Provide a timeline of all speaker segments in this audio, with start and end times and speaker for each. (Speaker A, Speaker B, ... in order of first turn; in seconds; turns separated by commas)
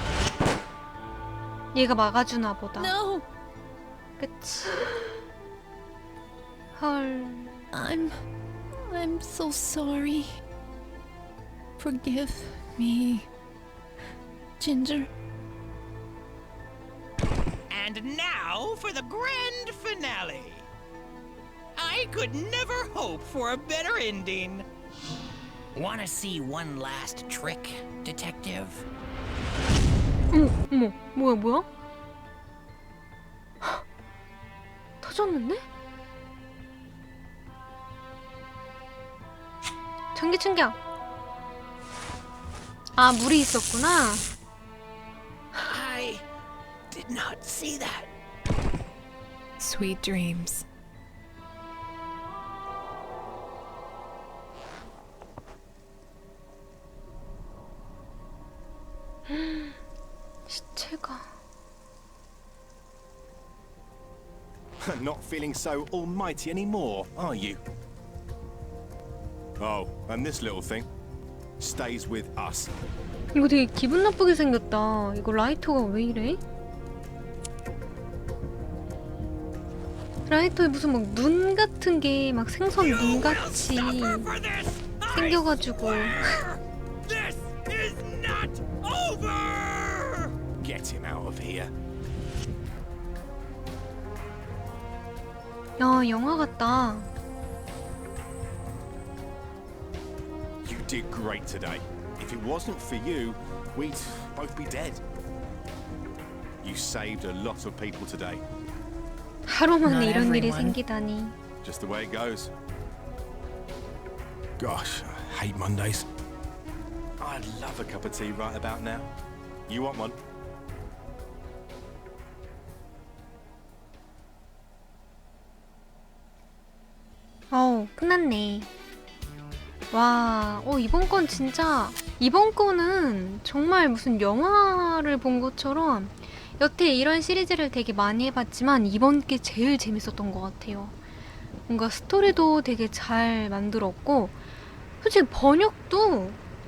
Speaker A: 1.7-2.9, Speaker B: 2.8-3.2, Speaker A: 4.2-5.1, Speaker A: 6.7-7.6, Speaker B: 7.7-8.1, Speaker B: 8.7-10.4, Speaker B: 11.8-13.3, Speaker B: 14.6-15.1, Speaker C: 17.7-20.7, Speaker C: 21.7-24.6, Speaker C: 25.7-28.9, Speaker A: 30.3-31.7, Speaker A: 35.0-35.6, Speaker A: 40.1-40.8, Speaker A: 43.0-44.2, Speaker C: 45.6-46.2, Speaker C: 46.9-48.1, Speaker D: 49.6-50.6, Speaker A: 59.3-59.8, Speaker A: 60.5-61.3, Speaker E: 64.9-67.6, Speaker E: 69.6-70.8, Speaker E: 71.6-72.7, Speaker A: 73.3-76.4, Speaker A: 80.3-84.3, Speaker C: 82.8-86.6, Speaker A: 85.1-86.4, Speaker E: 87.0-87.8, Speaker C: 87.2-90.3, Speaker E: 90.6-91.7, Speaker A: 95.8-97.1, Speaker E: 100.6-105.0, Speaker E: 106.6-108.4, Speaker A: 109.5-111.3, Speaker D: 109.8-110.8, Speaker E: 111.6-112.5, Speaker E: 114.6-116.1, Speaker E: 117.2-119.1, Speaker E: 119.7-120.2, Speaker A: 127.5-128.7, Speaker A: 129.9-140.9, Speaker A: 141.7-144.4, Speaker A: 145.0-146.4